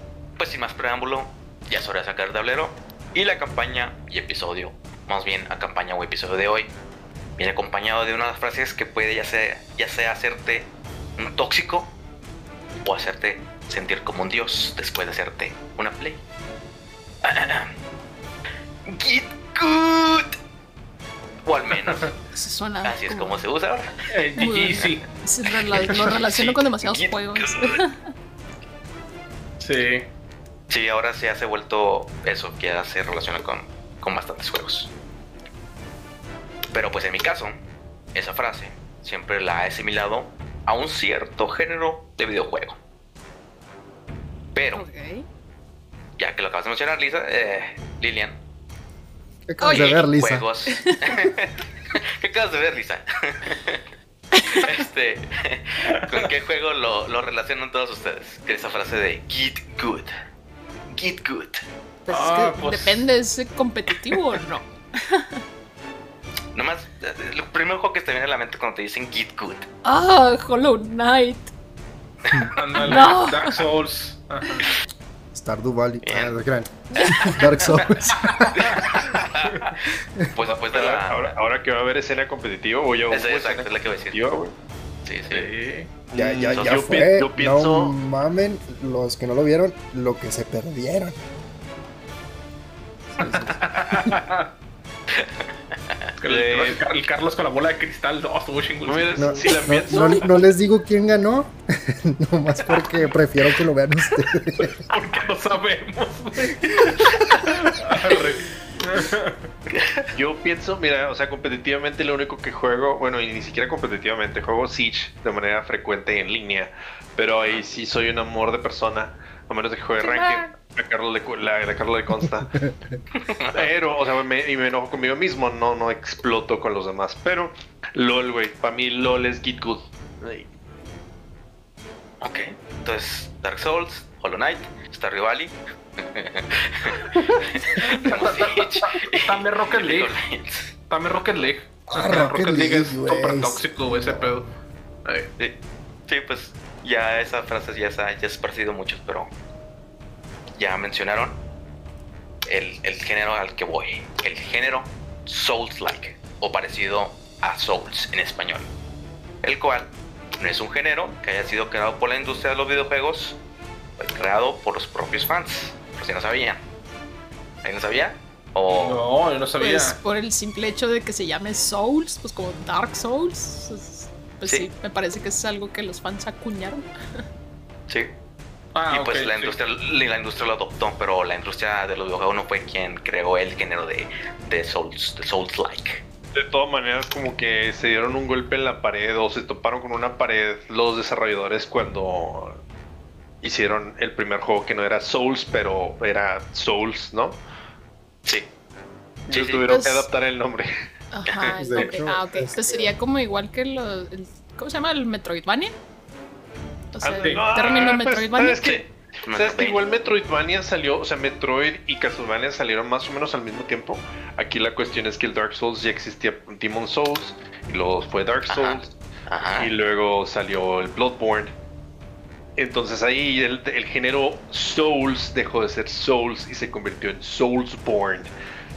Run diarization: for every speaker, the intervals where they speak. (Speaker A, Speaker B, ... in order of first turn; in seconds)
Speaker A: 0.4-6.7, 7.4-11.9, 12.8-16.2, 17.2-17.7, 18.9-20.4, 21.4-22.2, 22.8-24.1, 25.7-27.8, 30.7-34.9, 36.7-37.6, 38.1-42.8, 44.5-44.8, 46.2-48.4, 49.7-53.8, 54.5-60.1, 60.9-61.6, 66.5-69.7, 76.0-76.4, 76.9-78.0, 78.5-79.8, 80.3-81.3, 83.1-84.3, 85.0-85.5, 95.2-95.5, 109.7-110.1, 123.2-123.7, 132.2-141.4, 145.4-149.3, 150.6-151.4, 152.5-158.7, 159.4-163.4, 164.0-166.6, 167.6-169.0, 178.9-186.0, 199.3-199.6, 201.3-201.9, 207.6-207.9, 209.2-209.8, 218.5-219.7
Speaker B: 21.8-22.1, 24.1-25.0, 29.6-30.1, 55.9-56.2, 62.1-63.1, 72.5-74.7, 78.1-79.7, 85.3-85.9, 93.2-94.5, 96.2-99.7, 104.9-109.4, 137.7-140.1, 140.9-144.5, 145.0-145.3, 168.7-170.0, 178.7-179.6
Speaker C: 22.3-23.4, 24.4-28.0, 44.7-45.2, 49.6-50.0, 50.7-51.2, 54.3-54.8, 62.0-65.4, 69.8-71.5, 72.8-73.5, 76.9-77.2, 120.0-120.4, 169.6-176.9, 199.7-200.1, 201.1-205.7, 206.9-208.8
Speaker D: 49.5-50.5, 75.3-78.8, 86.1-91.2, 93.2-94.2, 99.2-104.8, 141.9-144.4, 201.6-202.9
Speaker E: 80.4-84.5, 86.1-88.0, 96.2-96.8, 98.8-100.3, 110.1-122.5, 123.5-130.5, 186.3-192.6, 193.4-197.4, 199.3-200.7, 207.0-218.9, 219.6-221.5, 222.6-228.3